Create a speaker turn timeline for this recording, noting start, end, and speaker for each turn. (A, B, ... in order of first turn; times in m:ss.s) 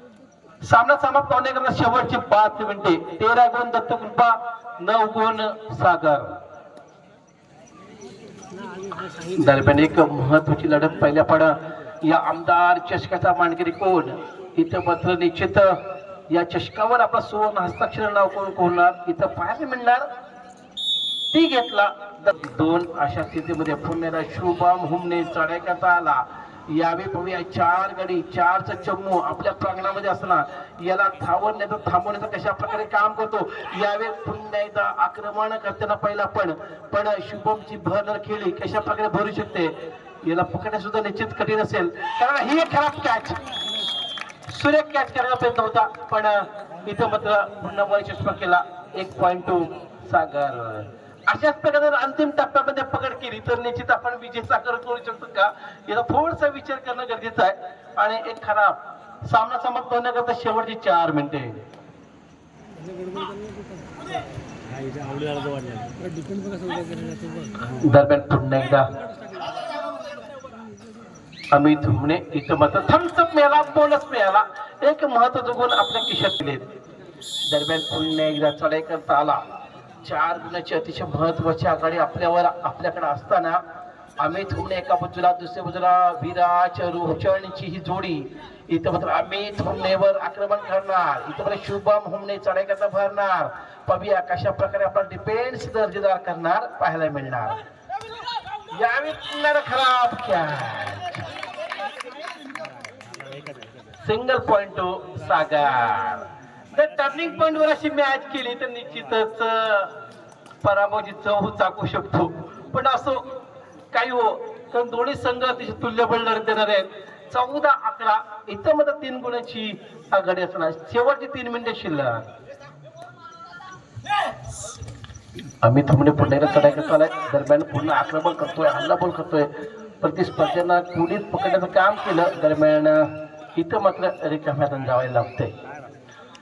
0:00.6-0:06.4 A
0:09.3-0:20.1 A
0:21.3-0:43.4 A
0:44.5-1:01.6 A
1:07.7-1:08.9 A
1:11.5-1:16.7 A
1:17.5-1:19.4 A
1:20.0-1:23.6 A
1:24.2-1:37.6 A
1:38.7-1:41.3 A
1:44.0-1:49.9 A
1:50.6-1:53.3 A
1:53.9-2:02.3 A
2:05.6-2:15.5 A